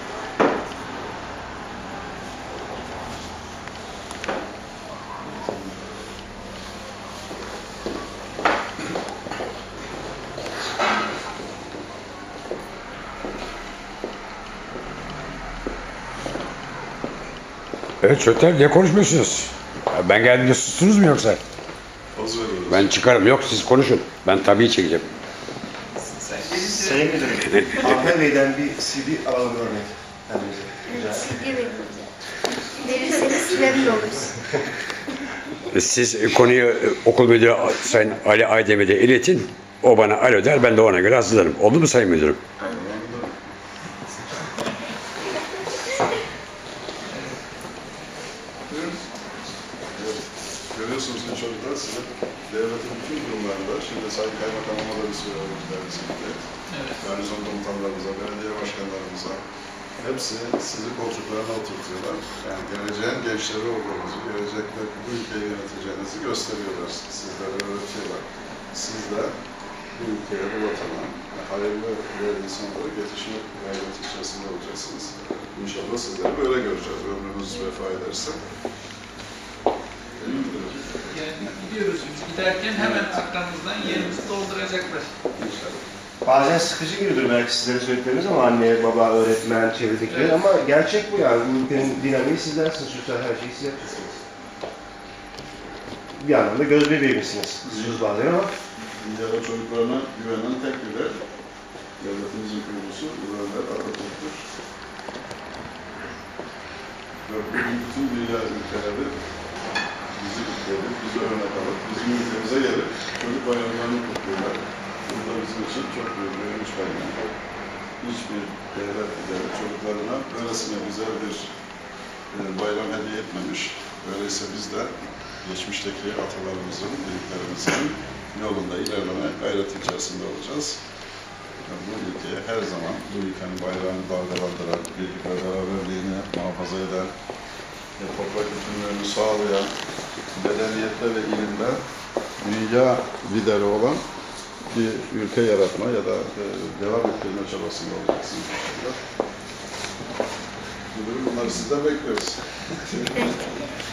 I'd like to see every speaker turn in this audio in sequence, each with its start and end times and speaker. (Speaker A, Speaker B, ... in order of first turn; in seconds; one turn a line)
Speaker A: 5.2-5.6
Speaker B: 18.0-21.4
Speaker A: 22.1-22.9
Speaker B: 22.7-25.1
Speaker C: 26.1-27.0
Speaker D: 26.3-31.4
Speaker E: 30.9-32.1
Speaker E: 32.8-34.3
Speaker B: 35.7-42.4
Speaker A: 42.6-43.4
Speaker C: 48.7-49.0
Speaker A: 49.9-59.4
Speaker C: 56.7-57.0
Speaker A: 60.0-69.3
Speaker A: 69.9-78.4
Speaker A: 80.2-81.0
Speaker C: 80.7-85.1
Speaker A: 82.7-83.1
Speaker A: 83.8-84.2
Speaker A: 85.3-85.8
Speaker D: 86.2-94.1
Speaker C: 90.1-90.5
Speaker D: 96.2-98.5
Speaker A: 97.6-98.0
Speaker A: 98.9-101.2
Speaker A: 102.0-104.5
Speaker A: 107.2-109.2
Speaker A: 110.1-117.2
Speaker A: 118.0-121.5
Speaker A: 122.3-130.8
Speaker A: 131.7-137.1
Speaker A: 138.0-139.7
Speaker A: 140.3-141.8
Speaker A: 142.4-144.0
Speaker A: 144.7-149.0
Speaker A: 150.9-153.2
Speaker E: 153.1-153.7